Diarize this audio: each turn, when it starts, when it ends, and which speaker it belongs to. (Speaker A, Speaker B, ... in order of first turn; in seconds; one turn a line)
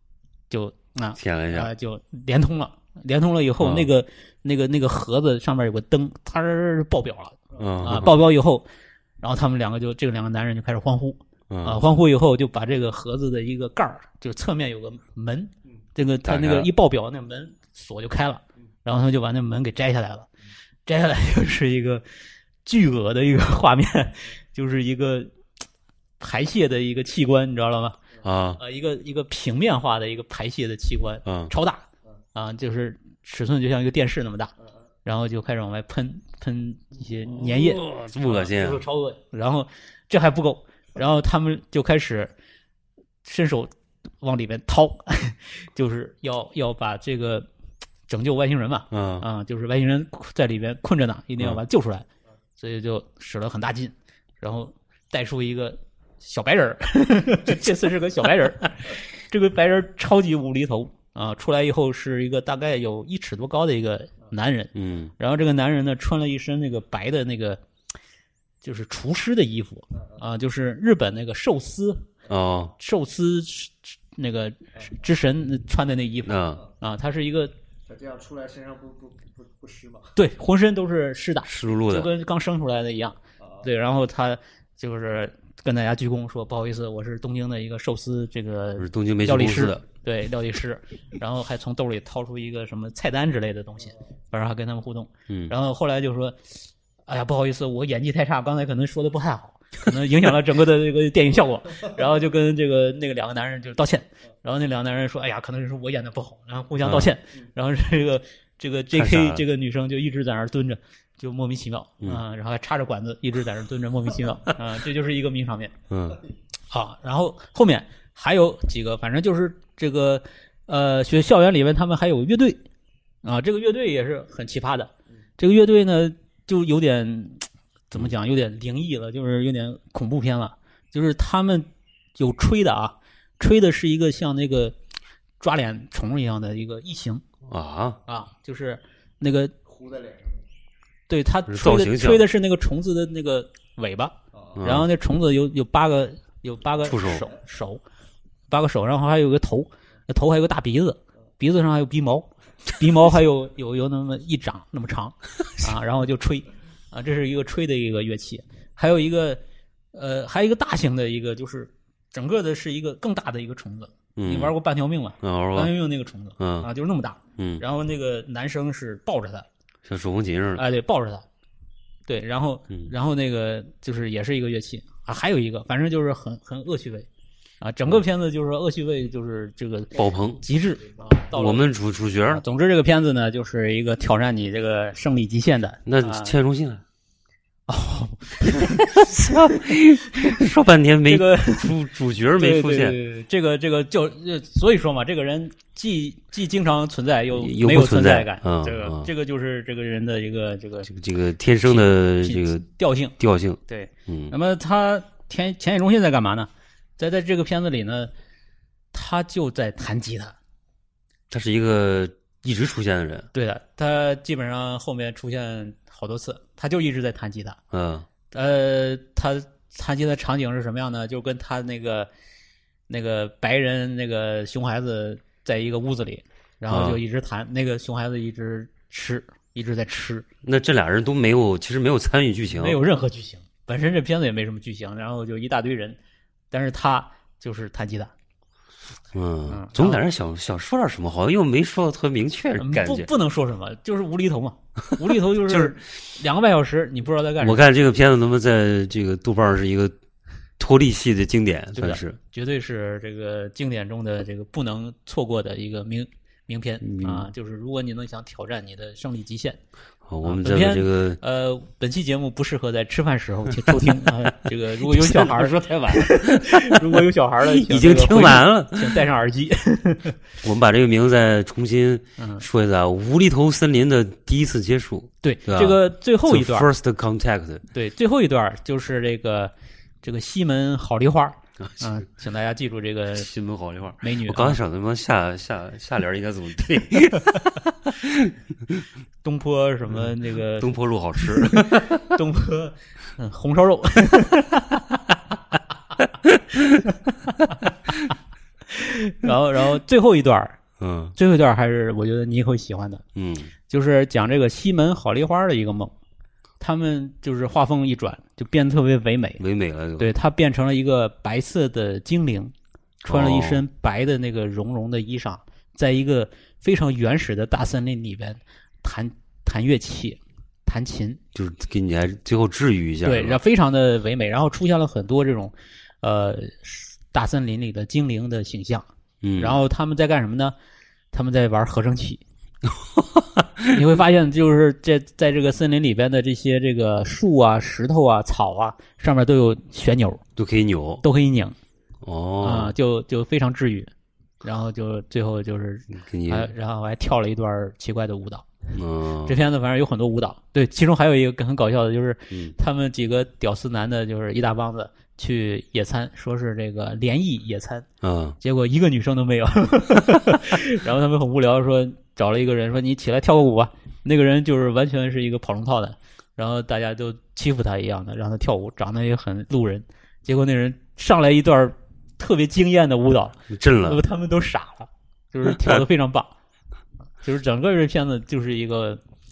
Speaker A: 0.5-8.7
Speaker B: 1.2-1.7
Speaker B: 3.6-3.9
Speaker B: 7.6-8.2
Speaker A: 9.2-20.3
Speaker B: 11.5-11.8
Speaker B: 16.2-16.7
Speaker A: 20.9-22.1
Speaker A: 22.6-25.3
Speaker A: 26.2-28.0
Speaker B: 28.2-28.6
Speaker A: 28.6-34.5
Speaker B: 31.2-31.5
Speaker A: 35.0-42.3
Speaker B: 37.3-38.8
Speaker A: 43.2-47.5
Speaker A: 48.1-67.6
Speaker B: 48.9-49.3
Speaker B: 64.7-65.1
Speaker A: 68.6-72.1
Speaker B: 72.3-72.7
Speaker A: 72.8-77.5
Speaker B: 76.3-76.6
Speaker C: 77.9-80.1
Speaker A: 80.2-115.7
Speaker B: 81.5-82.1
Speaker B: 88.8-89.8
Speaker B: 106.8-107.1
Speaker B: 108.9-109.4
Speaker B: 115.9-116.2
Speaker A: 116.7-122.6
Speaker A: 123.2-134.8
Speaker A: 135.4-137.2
Speaker B: 137.5-138.0
Speaker A: 138.1-139.5
Speaker C: 139.7-140.4
Speaker A: 141.1-147.8
Speaker B: 141.5-142.3
Speaker B: 144.6-144.9
Speaker B: 146.8-147.3
Speaker A: 148.5-159.4
Speaker A: 159.9-169.5
Speaker B: 164.2-164.5
Speaker B: 165.2-165.7
Speaker B: 166.4-166.7
Speaker B: 167.4-167.6
Speaker B: 169.9-170.6
Speaker A: 170.6-171.3
Speaker A: 172.1-177.1
Speaker A: 177.6-181.7
Speaker B: 179.9-180.4
Speaker B: 181.3-182.4
Speaker A: 182.3-186.3
Speaker B: 185.9-186.8
Speaker A: 187.7-189.6
Speaker B: 189.0-193.0
Speaker A: 190.2-190.4
Speaker A: 191.1-191.7
Speaker A: 192.4-200.9
Speaker B: 197.4-199.1
Speaker B: 200.9-202.7
Speaker A: 201.7-203.1
Speaker B: 203.2-204.3
Speaker A: 203.7-208.1
Speaker A: 208.9-210.3
Speaker B: 211.3-213.3
Speaker A: 213.3-217.6
Speaker B: 217.7-218.1
Speaker A: 218.3-222.1
Speaker A: 222.9-230.3
Speaker B: 226.7-227.0
Speaker B: 230.4-232.8
Speaker A: 232.5-236.0
Speaker A: 236.5-238.1
Speaker B: 239.1-243.1
Speaker A: 239.5-240.0
Speaker A: 242.6-247.6
Speaker B: 245.5-245.8
Speaker B: 247.4-249.9
Speaker B: 250.6-252.2
Speaker A: 251.8-259.6
Speaker B: 256.8-257.3
Speaker B: 260.1-261.2
Speaker A: 260.2-270.2
Speaker B: 263.7-269.0
Speaker B: 270.4-277.6
Speaker A: 272.2-272.4
Speaker A: 275.2-276.7
Speaker A: 277.7-283.3
Speaker B: 281.6-282.0
Speaker B: 283.1-288.8
Speaker A: 284.0-284.6
Speaker A: 289.2-295.0
Speaker B: 290.0-292.1
Speaker B: 296.2-296.7
Speaker A: 298.7-300.6
Speaker B: 300.8-301.1
Speaker A: 301.2-303.0
Speaker B: 303.1-303.5
Speaker A: 303.7-305.9
Speaker A: 306.6-309.4
Speaker B: 309.4-310.1
Speaker A: 310.0-312.5
Speaker A: 313.1-321.2
Speaker B: 313.1-313.6
Speaker B: 321.4-323.4
Speaker A: 323.1-328.9
Speaker B: 329.2-329.6
Speaker A: 329.4-330.6
Speaker A: 331.1-332.2
Speaker B: 332.7-333.7
Speaker A: 333.7-340.2
Speaker B: 340.4-341.0
Speaker A: 341.0-341.6
Speaker B: 342.0-342.8
Speaker A: 342.4-343.9
Speaker A: 344.4-348.5
Speaker B: 345.9-346.5
Speaker B: 348.7-349.4
Speaker A: 349.3-357.9
Speaker B: 358.0-358.4
Speaker A: 358.4-376.3
Speaker B: 373.5-374.0
Speaker B: 375.5-375.8
Speaker A: 377.2-379.0